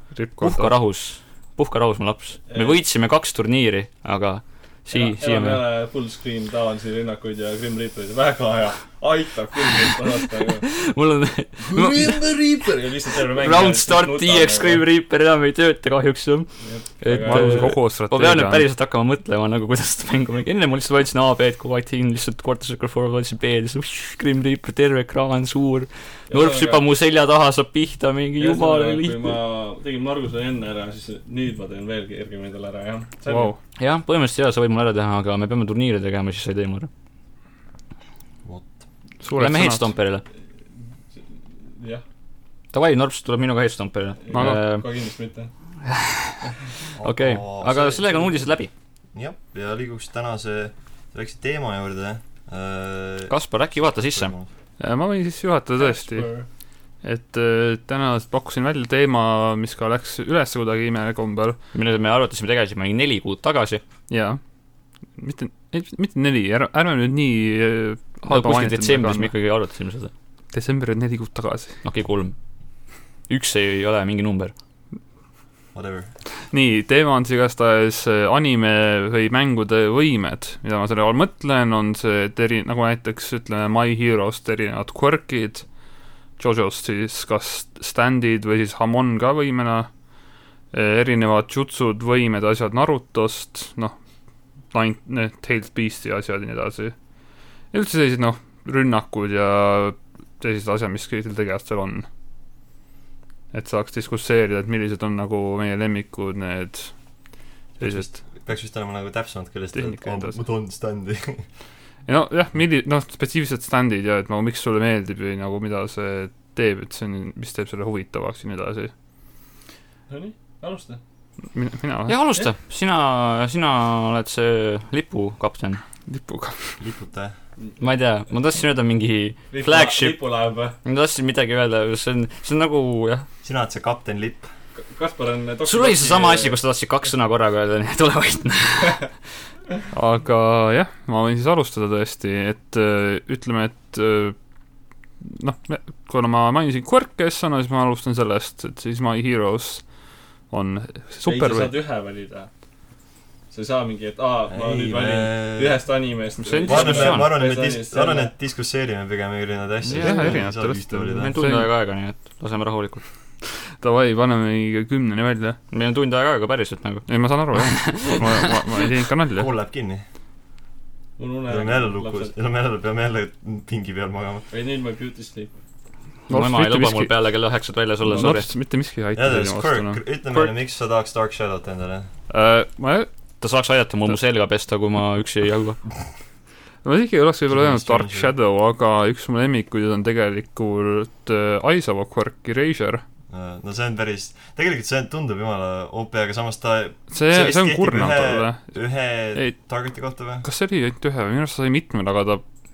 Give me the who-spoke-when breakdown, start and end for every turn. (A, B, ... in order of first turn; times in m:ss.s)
0:00.1-0:00.7 A
0:00.4-0:05.6 B
0:02.5-0:02.8 C
0:04.9-0:10.7 C
0:10.6-0:12.7 B
0:11.6-0:14.8 C
0:13.3-0:29.4 B
0:16.6-0:17.8 C
0:17.2-0:18.6 A
0:26.3-0:26.8 C
0:28.4-0:33.5 C
0:33.3-0:33.6 A
0:33.8-0:36.9 B
0:39.2-0:39.9 A
0:39.4-0:40.2 B
0:41.1-0:42.0 C
0:42.7-0:44.8 B
0:44.2-0:45.5 C
0:44.3-0:44.6 A
0:45.8-0:48.7 B
0:47.0-0:48.0 D
0:49.2-0:53.3 D
0:53.3-0:54.3 B
0:54.1-0:54.5 D
0:54.8-0:56.3 A
0:55.8-0:56.5 C
0:57.0-1:01.6 A
1:01.7-1:03.8 B
1:04.1-1:04.4 A
1:05.2-1:09.3 A
1:08.2-1:10.1 B
1:10.5-1:11.8 A
1:11.8-1:12.4 B
1:13.3-1:14.5 B
1:15.7-1:16.1 D
1:16.5-1:25.6 A
1:26.4-1:29.9 A
1:30.7-1:34.0 A
1:34.7-1:37.0 A
1:37.7-1:42.1 A
1:43.5-1:46.9 A
1:47.8-1:51.4 D
1:47.8-1:48.1 A
1:49.7-1:50.4 A
1:52.1-1:58.9 A
2:00.1-2:01.0 C
2:01.5-2:02.2 A
2:02.1-2:05.8 B
2:06.1-2:06.8 A
2:06.8-2:07.3 D
2:07.8-2:10.2 B
2:09.5-2:10.8 C
2:10.8-2:13.3 B
2:13.4-2:14.5 D
2:14.8-2:16.6 C
2:15.6-2:19.0 B
2:19.9-2:24.4 A
2:25.2-2:29.9 A
2:30.5-2:31.7 A
2:31.2-2:32.5 C
2:33.5-2:38.3 C
2:34.5-2:35.8 D
2:36.4-2:37.4 B
2:36.7-2:41.4 D
2:39.8-2:40.5 B
2:39.9-2:41.7 A
2:41.1-2:43.0 B
2:43.7-2:45.6 A
2:45.7-2:48.3 B
2:47.1-2:49.5 A
2:49.3-2:50.0 D
2:51.2-2:52.3 C
2:51.5-2:54.4 D
2:54.5-2:55.5 C
2:56.3-2:57.2 A
2:56.3-2:58.5 B
2:58.0-3:00.4 A
2:59.2-3:02.1 D
3:02.3-3:03.1 A
3:03.4-3:05.8 B
3:06.8-3:13.0 A
3:07.5-3:08.4 D
3:13.3-3:20.4 D
3:17.1-3:18.8 A
3:20.4-3:22.4 A